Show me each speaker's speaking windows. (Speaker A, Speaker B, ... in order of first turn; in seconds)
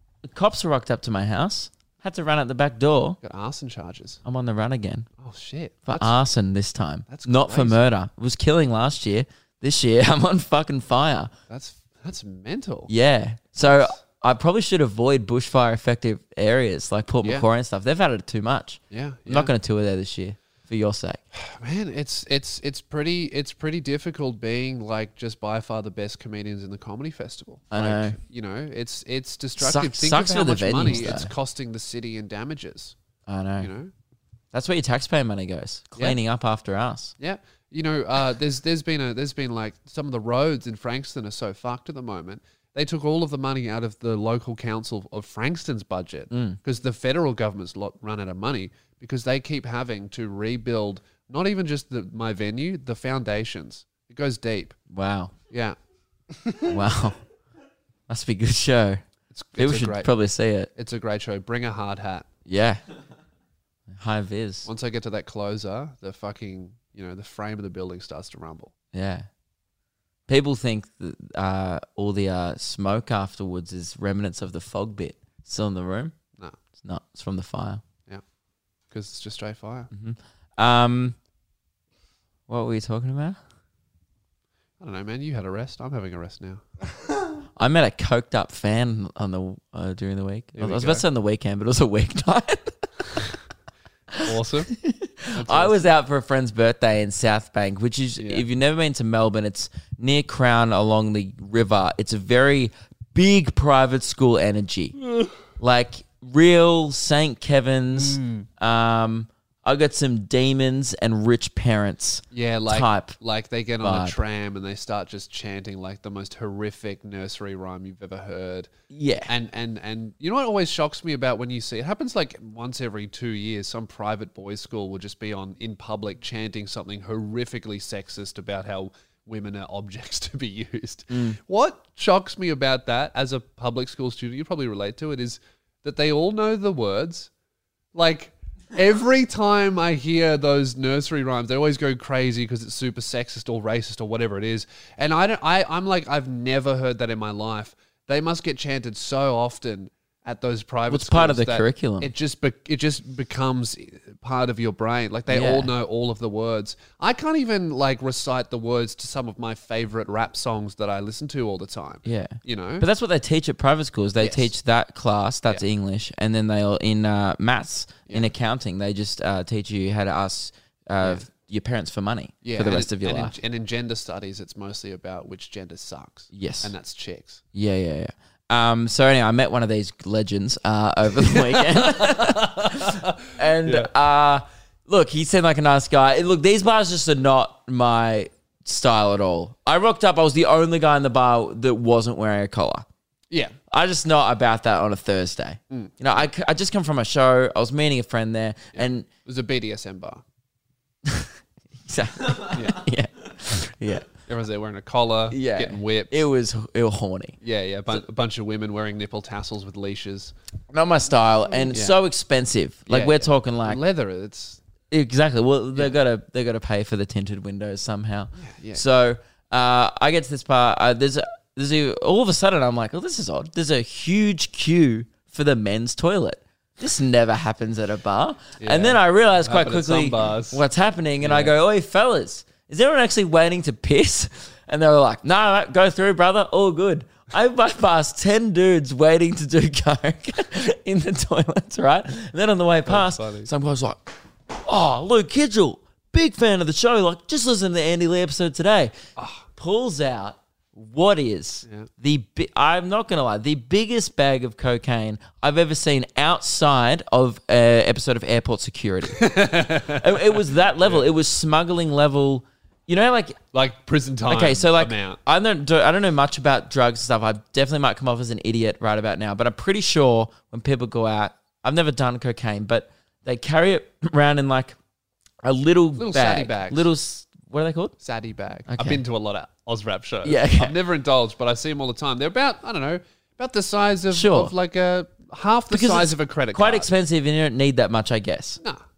Speaker A: 0.2-3.2, 4.2-5.1, 5.9-11.3, 12.9-21.2, 27.7-28.1, 29.6-31.3, 33.3-33.7, 34.5-37.1, 46.3-46.6, 54.9-55.3, 56.6-57.2, 58.1-59.0, 59.6-60.7, 62.5-62.8, 63.9-64.7, 68.9-69.3, 70.3-76.1, 76.8-77.8, 79.9-81.2, 82.5-83.4, 87.6-93.2, 94.1-105.0, 105.6-113.2, 113.8-114.2, 118.9-119.3, 131.1-131.4, 150.9-152.1, 155.3-155.7, 162.0-173.3, 176.3-176.7, 177.5-192.8, 193.7-199.1, 201.0-201.3, 201.8-204.1, 205.3-207.4, 210.7-213.8, 214.9-248.9, 249.6-259.3, 259.8-263.4, 264.3-274.8, 275.4-277.9, 278.7-279.0, 280.2-280.8, 284.1-284.5, 285.7-288.6
Speaker B: 3.2-4.2, 5.2-6.2, 7.1-7.8, 11.5-12.9, 13.6-13.9, 18.9-19.5, 21.3-32.9, 33.6-33.9, 37.2-54.8, 55.5-55.8, 59.3-60.1, 60.8-62.2, 64.7-68.7, 78.9-79.9, 84.8-86.6, 90.5-91.0, 94.2-94.7, 95.3-95.8, 98.2-98.4, 107.9-108.5, 112.3-118.7, 119.3-137.3, 137.9-162.8, 164.2-164.5, 171.0-171.2, 172.4-177.4, 181.2-183.9, 195.7-196.2, 198.7-200.2, 202.5-202.8, 204.3-206.2, 207.4-210.3, 212.9-214.6, 218.4-218.8, 228.6-230.6, 231.2-231.5, 242.8-243.5, 249.2-249.4, 259.1-261.1, 263.5-265.2, 275.9-276.9, 278.0-286.9